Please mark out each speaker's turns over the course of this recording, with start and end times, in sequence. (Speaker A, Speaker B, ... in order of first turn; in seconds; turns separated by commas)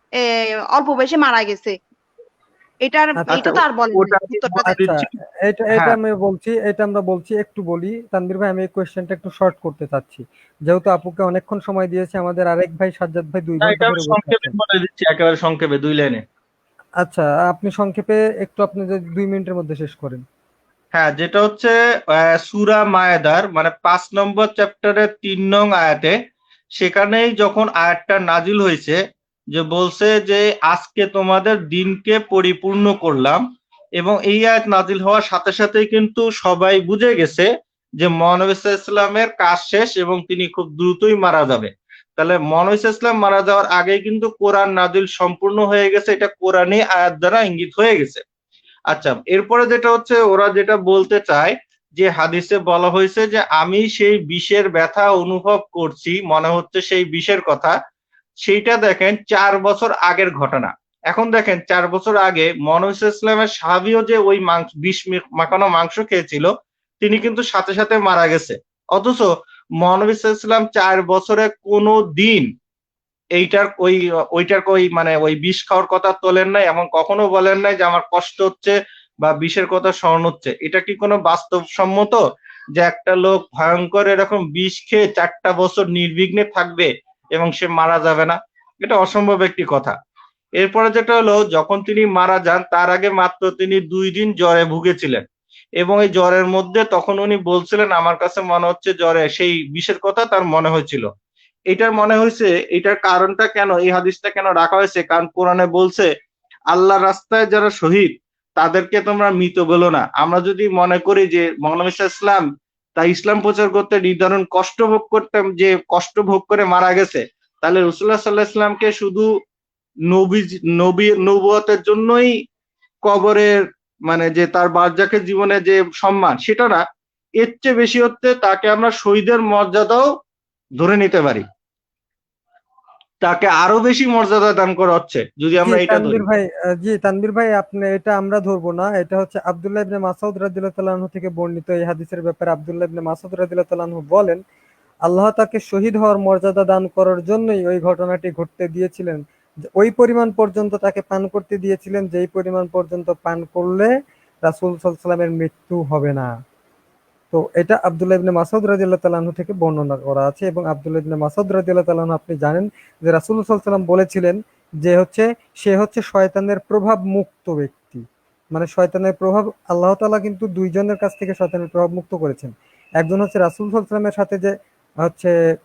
Speaker A: 0.7-1.7, Speaker A: 2.8-4.8, Speaker B: 3.1-3.5, Speaker C: 3.3-5.1, Speaker B: 4.7-14.5, Speaker C: 13.6-16.2, Speaker B: 17.0-20.2, Speaker C: 20.9-26.1, Speaker C: 26.8-29.0, Speaker C: 29.5-33.4, Speaker C: 34.0-37.5, Speaker C: 38.0-48.2, Speaker C: 48.9-57.7, Speaker C: 58.4-66.5, Speaker C: 67.0-69.3, Speaker C: 69.8-72.5, Speaker C: 73.4-82.2, Speaker C: 82.8-90.0, Speaker C: 90.6-95.2, Speaker C: 95.8-101.1, Speaker C: 101.7-106.1, Speaker C: 106.7-112.5, Speaker C: 113.0-119.3, Speaker C: 120.1-122.3, Speaker C: 123.1-123.5, Speaker C: 124.1-126.8, Speaker C: 127.4-130.0, Speaker C: 130.8-131.4, Speaker C: 133.2-136.2, Speaker B: 135.6-144.4, Speaker B: 145.1-153.9, Speaker B: 154.4-156.3, Speaker B: 157.3-174.5, Speaker B: 175.0-175.3